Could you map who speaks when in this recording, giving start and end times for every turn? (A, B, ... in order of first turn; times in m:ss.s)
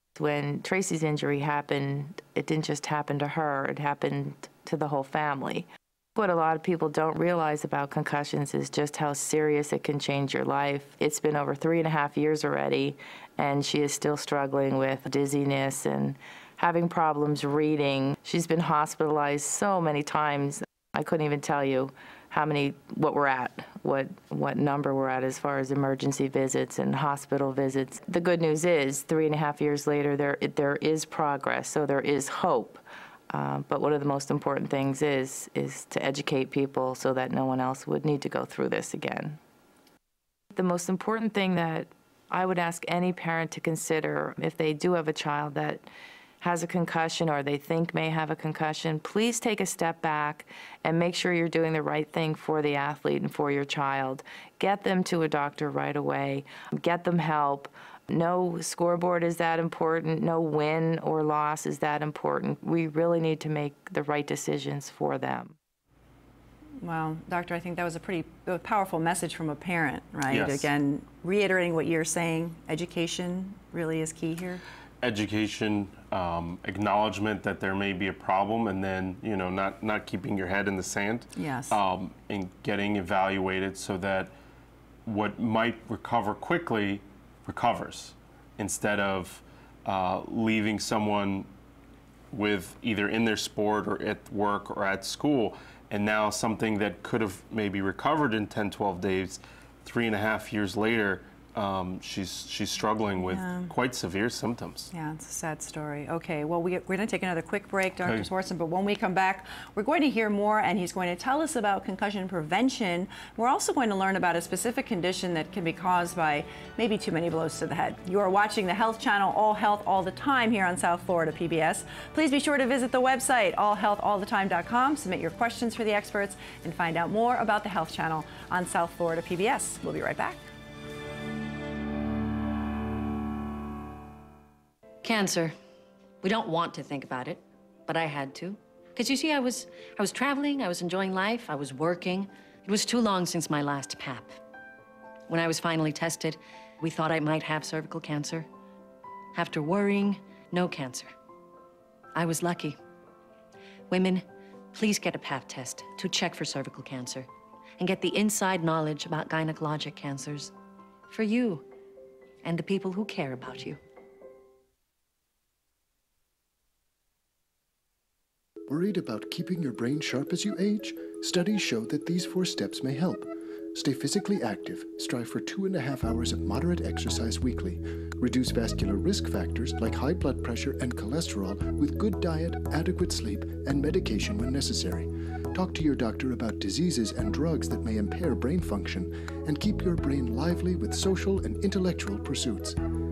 0:00.2-0:39.4 A
0:40.5-0:45.9 A
0:46.4-1:05.5 A
1:06.8-1:14.6 B
1:10.3-1:10.7 C
1:15.0-1:24.3 C
1:21.4-1:21.8 B
1:25.0-1:31.5 C
1:32.3-1:44.9 C
1:43.2-1:43.7 B
1:44.9-2:10.4 B
1:48.0-1:48.3 C
2:15.0-2:15.5 D
2:16.2-2:24.4 D
2:25.3-2:28.5 D
2:29.3-2:31.1 D
2:32.1-2:32.8 D
2:33.9-2:37.3 D
2:37.8-2:40.5 D
2:41.1-2:41.7 D
2:42.4-2:43.8 D
2:48.7-3:12.8 E